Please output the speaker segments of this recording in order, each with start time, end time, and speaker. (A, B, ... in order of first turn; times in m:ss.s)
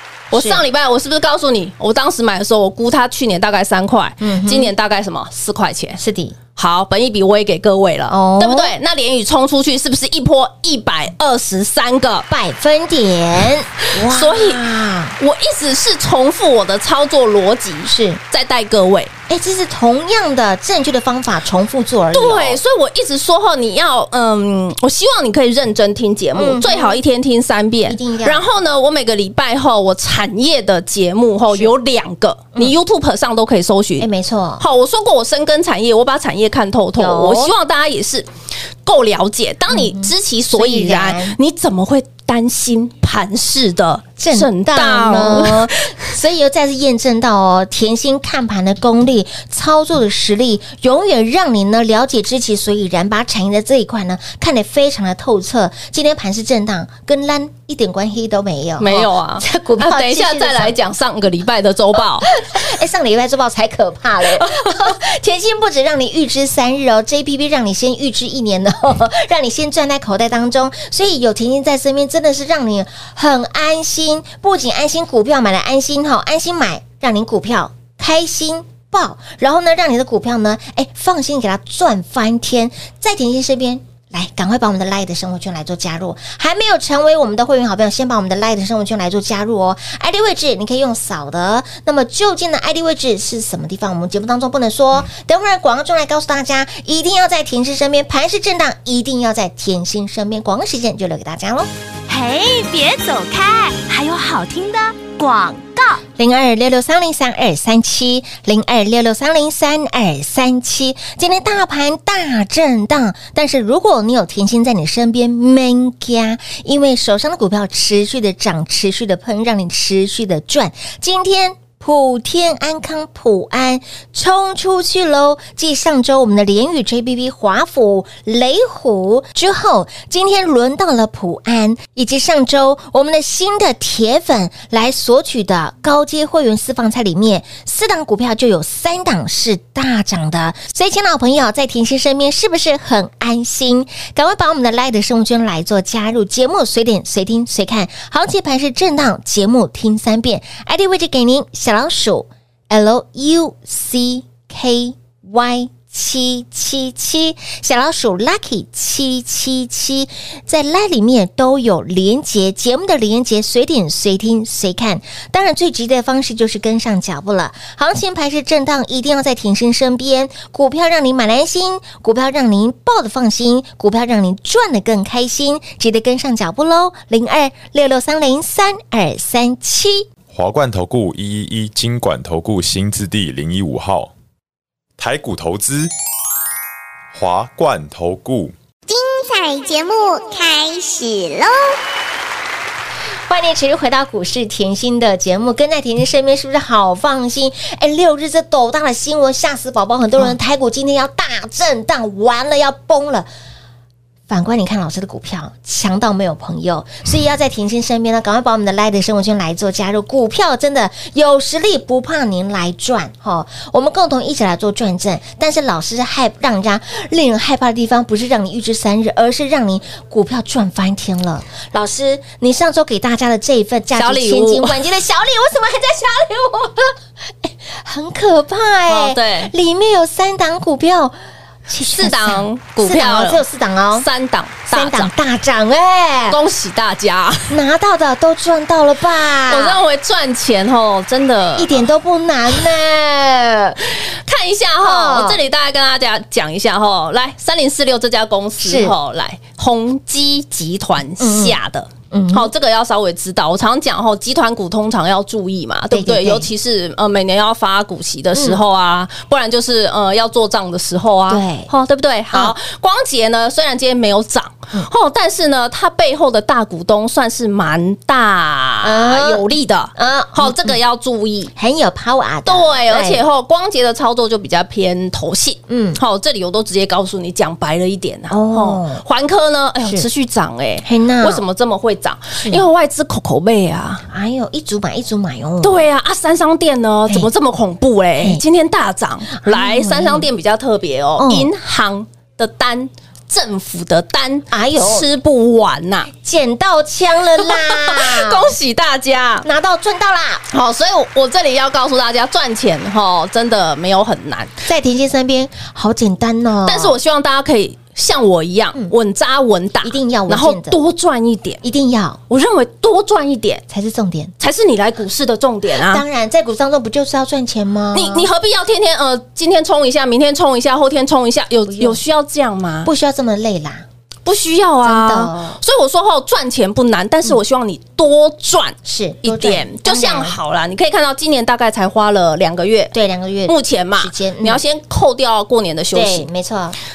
0:00.3-0:06.0 A
0:00.3-0:00.6 B
0:04.2-0:04.7 B
0:06.0-0:06.4 B
0:06.6-0:12.3 A
0:08.1-0:08.8 B
0:12.3-0:15.2 B
0:14.1-0:14.6 A
0:15.2-0:19.1 A
0:17.8-0:18.2 B
0:19.3-0:22.6 B
0:22.1-0:34.1 A
0:26.4-0:27.0 B
0:27.9-0:28.4 B
0:34.0-0:34.6 B
0:34.6-0:38.3 A
0:37.0-0:37.5 B
0:38.8-0:45.8 A
0:39.7-0:41.4 B
0:44.2-1:00.8 B
0:58.8-1:02.3 A
1:02.3-1:41.7 B
1:42.1-1:46.0 C
1:46.2-3:00.1 B
3:00.3-3:04.1 D
3:05.0-3:05.9 D
3:07.1-3:08.6 D
3:08.9-3:11.5 E
3:13.3-3:23.3 B
3:24.3-3:51.2 B
3:44.0-3:44.8 A
3:48.9-3:49.5 A
3:51.7-3:54.1 B
3:51.9-3:53.4 A
3:54.0-3:55.1 A
3:54.7-3:56.4 B
3:56.3-3:57.6 A
3:57.5-3:59.8 B
3:59.5-4:01.9 A
4:01.6-4:03.8 B
4:03.9-4:31.5 A
4:04.8-4:05.4 B
4:08.6-4:09.0 B
4:11.2-4:11.6 B
4:12.1-4:12.5 B
4:15.9-4:16.5 B
4:18.4-4:18.6 B
4:21.3-4:21.7 B
4:28.8-4:29.4 B
4:30.0-4:30.8 B
4:31.6-4:33.2 B
4:32.5-4:44.0 A
4:35.7-4:36.0 B
4:38.3-4:39.0 B
4:40.8-4:41.4 B
4:42.4-4:42.6 B
4:44.1-4:45.8 B
4:45.6-4:56.1 A
4:49.4-4:50.3 B
4:51.2-4:51.5 B
4:54.5-4:55.1 B
4:56.1-4:58.5 B
4:57.4-4:59.5 A
4:59.4-5:00.4 B
5:00.5-5:04.5 A
5:04.6-5:07.0 B
5:06.7-5:11.6 A
5:09.8-5:10.8 B
5:11.6-5:12.2 B
5:12.3-5:13.6 A
5:13.7-5:14.3 B
5:14.4-5:16.0 A
5:15.7-5:18.3 B
5:17.9-5:22.9 A
5:21.7-5:22.0 B
5:22.8-5:23.8 B
5:24.2-5:32.9 A
5:24.8-5:25.6 B
5:28.8-5:30.4 B
5:32.9-5:34.6 B
5:33.5-5:36.3 A
5:35.9-5:36.8 B